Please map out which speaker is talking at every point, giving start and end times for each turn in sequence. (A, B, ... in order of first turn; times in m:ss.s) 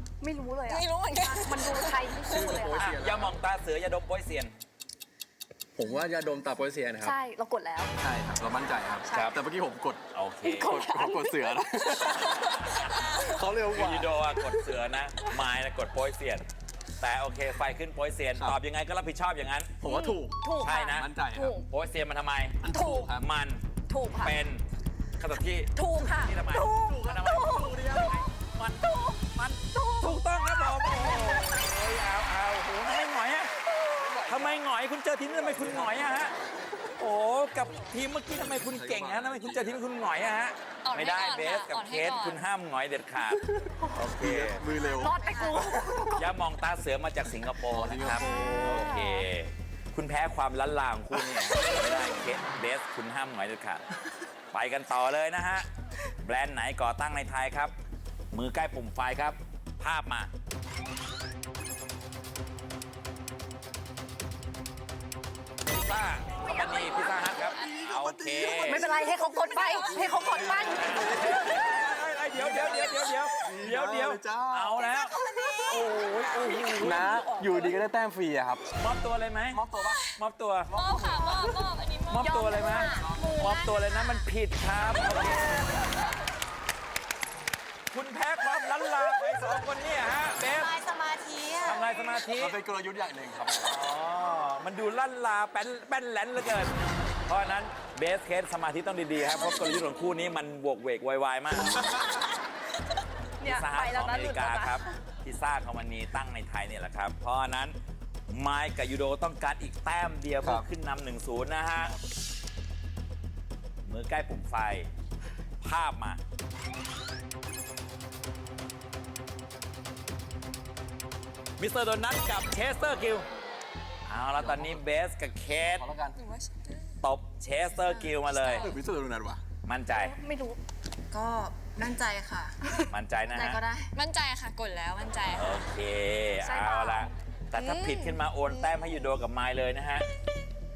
0:00.2-0:02.9 A
0:00.6-0:02.6 B
0:02.2-0:03.4 C
0:02.8-0:04.5 D
0:05.8-0:07.2 C
0:07.0-0:07.9 A
0:08.0-0:12.4 C
0:09.1-0:09.4 A
0:10.1-0:10.8 D
0:10.6-0:11.4 A
0:12.3-0:13.2 D
0:13.0-0:13.3 B
0:13.2-0:14.2 C
0:13.7-0:16.5 D
0:17.0-0:19.8 D
0:19.8-0:21.6 C
0:19.8-0:21.7 A
0:20.6-0:21.1 D
0:21.6-0:24.6 D
0:22.6-0:23.2 C
0:22.7-0:23.1 A
0:23.9-0:24.3 A
0:25.2-0:33.5 D
0:25.7-0:28.2 A
0:26.7-0:28.1 C
0:28.8-0:29.2 A
0:29.7-0:31.4 A
0:33.9-0:34.6 C
0:34.2-0:36.3 D
0:35.2-0:36.3 C
0:37.0-0:43.4 D
0:38.3-0:39.8 C
0:40.8-0:42.4 B
0:43.6-0:46.1 C
0:43.9-0:44.6 D
0:45.0-0:46.2 E
0:45.0-0:46.0 A
0:46.1-0:53.8 D
0:47.7-0:48.8 C
0:48.3-0:49.0 A
0:48.4-0:48.9 E
0:54.5-0:55.7 D
0:56.2-0:57.7 D
0:58.3-1:00.3 D
1:05.7-1:08.9 D
1:06.5-1:07.3 A
1:07.3-1:07.8 B
1:07.6-1:14.9 C
1:08.7-1:10.9 A
1:09.3-1:10.7 B
1:10.6-1:15.1 D
1:14.9-1:15.8 E
1:15.3-1:17.8 A
1:15.7-1:17.1 D
1:16.8-1:18.6 C
1:17.0-1:17.4 E
1:18.7-1:19.6 D
1:19.5-1:20.1 C
1:19.9-1:20.1 B
1:20.1-1:20.7 D
1:20.7-1:21.5 C
1:20.7-1:22.6 B
1:21.1-1:21.6 E
1:22.1-1:25.8 D
1:22.2-1:23.7 E
1:22.7-1:23.5 A
1:23.0-1:23.6 C
1:27.9-1:30.8 D
1:30.5-1:31.8 E
1:31.6-1:32.6 D
1:32.3-1:33.7 C
1:33.6-1:36.8 D
1:37.3-1:41.9 D
1:43.4-1:44.9 A
1:43.4-1:47.8 D
1:48.3-1:52.0 D
1:53.8-1:54.9 D
1:55.6-1:56.2 D
2:01.6-2:03.3 D
2:04.1-2:05.9 D
2:04.4-2:04.8 C
2:05.7-2:06.2 C
2:06.2-2:06.9 B
2:07.0-2:08.7 D
2:08.3-2:08.8 B
2:08.6-2:09.4 C
2:09.6-2:10.2 D
2:10.0-2:10.6 A
2:11.1-2:13.9 E
2:12.9-2:13.6 D
2:13.9-2:15.6 B
2:15.4-2:20.1 D
2:16.4-2:17.0 A
2:17.5-2:18.2 B